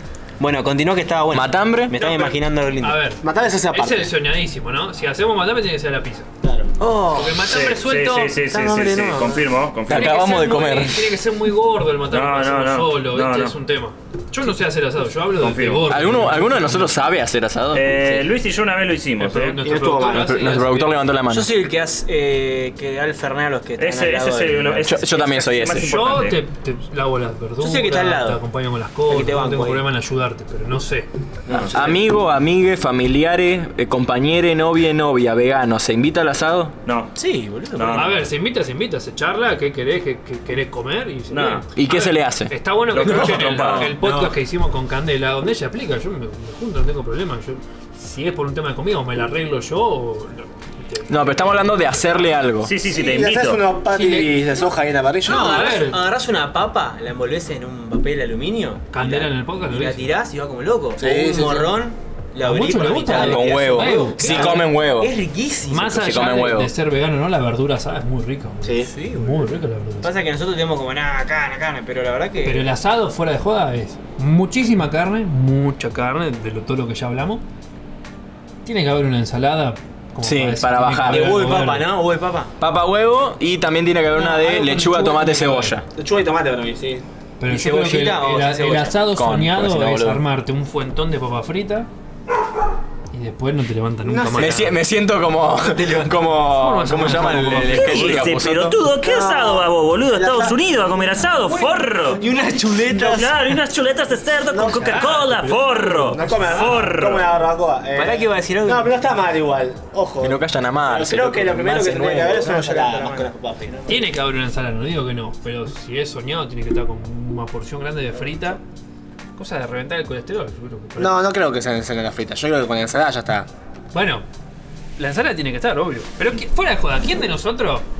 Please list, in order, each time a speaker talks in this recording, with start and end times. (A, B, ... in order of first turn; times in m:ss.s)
0:00.4-0:03.1 A
0:01.3-0:02.0 B
0:01.9-0:06.3 C
0:03.2-0:04.1 D
0:06.4-0:06.8 D
0:06.8-0:07.4 A
0:07.1-0:08.4 C
0:07.4-0:10.2 E
0:08.5-0:09.4 A
0:09.9-0:11.1 B
0:09.9-0:17.0 C
0:12.1-0:13.6 E
0:15.4-0:15.9 E
0:15.9-0:18.0 B
0:17.7-0:19.6 E
0:19.2-0:21.0 C
0:19.6-0:20.5 D
0:19.9-0:21.5 B
0:21.3-0:25.0 A
0:23.8-0:26.4 E
0:24.8-0:25.9 B
0:25.8-0:31.1 C
0:27.6-0:28.4 A
0:29.1-0:29.9 A
0:31.5-0:32.0 A
0:31.7-0:36.7 B
0:36.8-0:37.1 E
0:37.2-0:38.2 A
0:37.7-0:38.2 E
0:37.9-0:52.4 C
0:41.3-0:41.6 E
0:41.8-0:43.9 B
0:42.9-0:44.0 E
0:44.0-0:44.3 A
0:51.1-0:52.7 B
0:52.6-0:53.6 E
0:52.8-0:55.8 D
0:53.9-0:54.5 C
0:55.2-0:56.0 C
0:55.2-1:06.0 A
0:58.9-1:00.1 C
1:01.0-1:01.8 D
1:02.4-1:04.5 C
1:03.1-1:05.1 B
1:05.6-1:10.1 C
1:05.9-1:06.7 B
1:08.6-1:08.9 D
1:08.8-1:12.7 A
1:12.4-1:17.4 C
1:18.6-1:21.9 C
1:20.2-1:21.5 B
1:21.0-1:22.5 A
1:22.6-1:25.8 B
1:24.1-1:25.8 C
1:25.9-1:27.0 D
1:27.4-1:31.9 C
1:27.4-1:29.0 A
1:29.1-1:30.2 B
1:33.1-1:34.8 C
1:34.0-1:34.7 D
1:34.4-1:38.8 B
1:36.4-1:38.2 C
1:37.5-1:42.2 E
1:39.0-1:40.6 D
1:41.5-1:43.6 A
1:42.9-1:47.4 E
1:44.5-1:45.2 D
1:44.7-1:46.9 C
1:46.0-1:53.9 D
1:47.9-1:48.9 A
1:50.2-1:52.3 B
1:51.6-1:54.1 A
1:53.9-1:58.6 C
1:59.4-2:01.2 C
2:01.0-2:03.5 D
2:03.9-2:04.2 C
2:05.0-2:07.8 C